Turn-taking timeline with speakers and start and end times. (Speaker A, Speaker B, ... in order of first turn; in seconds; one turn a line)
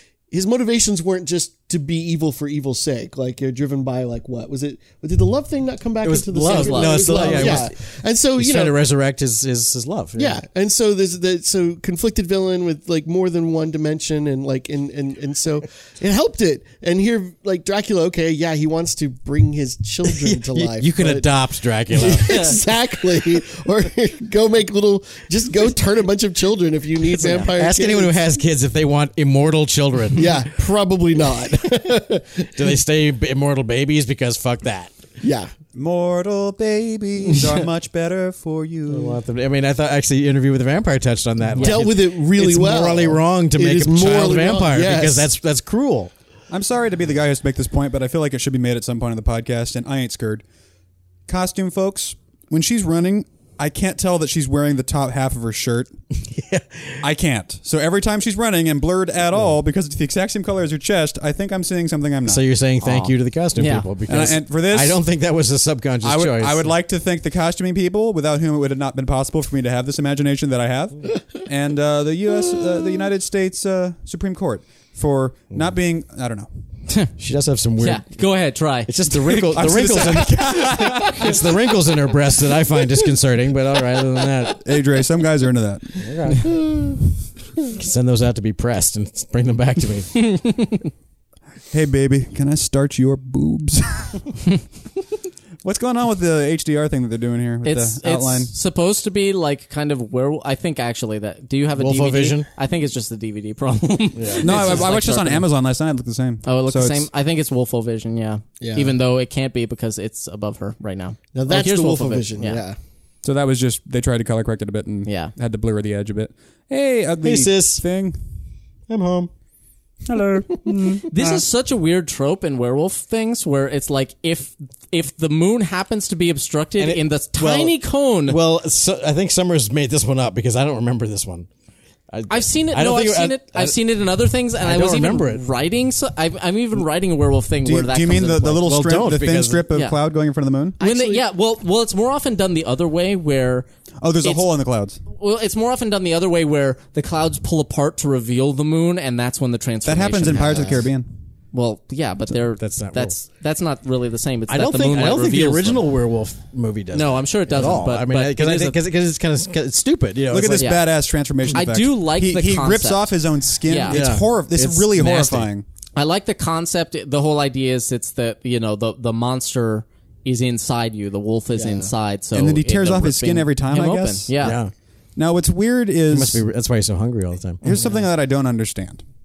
Speaker A: 0.3-8.8
Speaker B: 6.0-7.7
Speaker C: 6.4-7.7
Speaker B: 8.3-10.4
Speaker A: 10.2-21.4
Speaker B: 20.1-22.6
Speaker A: 21.9-28.2
Speaker C: 22.1-22.6
Speaker B: 27.2-30.5
Speaker A: 30.1-32.7
Speaker B: 31.3-31.8
Speaker B: 32.4-34.9
Speaker A: 35.2-35.5
Speaker D: 35.7-39.2
Speaker B: 37.3-37.6
Speaker B: 38.9-46.1
Speaker A: 41.6-45.3
Speaker D: 46.5-50.4
Speaker D: 51.3-55.9
Speaker B: 56.2-57.0
Speaker D: 57.0-62.4
Speaker B: 62.2-66.7
Speaker C: 62.8-63.9
Speaker D: 64.1-65.0
Speaker D: 66.0-76.5
Speaker B: 77.2-78.1
Speaker C: 77.8-79.6
Speaker B: 78.8-84.6
Speaker D: 79.4-81.4
Speaker D: 84.5-86.1
Speaker B: 86.0-86.6
Speaker B: 87.7-90.1
Speaker C: 90.1-90.9
Speaker D: 91.7-94.3
Speaker D: 95.6-98.5
Speaker C: 97.6-105.5
Speaker B: 101.8-102.5
Speaker B: 104.1-104.9
Speaker D: 104.4-107.0
Speaker C: 106.4-112.6
Speaker A: 108.6-108.9
Speaker A: 111.3-112.8
Speaker D: 113.2-118.2
Speaker C: 115.0-115.3
Speaker B: 117.2-117.8
Speaker B: 118.9-119.3
Speaker D: 120.1-121.4
Speaker C: 121.1-128.4
Speaker B: 126.8-131.5
Speaker B: 132.1-133.8
Speaker C: 132.3-138.7
Speaker B: 134.6-135.4
Speaker D: 137.6-140.8
Speaker B: 138.6-139.7
Speaker A: 140.8-141.2
Speaker C: 140.8-143.7
Speaker D: 144.0-145.0
Speaker C: 144.2-144.5
Speaker C: 145.1-150.8
Speaker D: 149.8-151.1
Speaker A: 150.4-150.7
Speaker C: 151.5-155.8
Speaker B: 152.6-153.1
Speaker B: 154.5-160.7
Speaker C: 156.9-158.8
Speaker D: 160.3-165.6
Speaker C: 160.6-160.8
Speaker C: 161.5-163.1
Speaker C: 163.7-164.0
Speaker B: 163.9-165.5
Speaker C: 165.9-174.6
Speaker A: 171.5-171.9
Speaker D: 172.3-174.3
Speaker B: 174.4-174.7
Speaker D: 175.2-176.4
Speaker B: 176.1-177.7
Speaker D: 177.6-179.0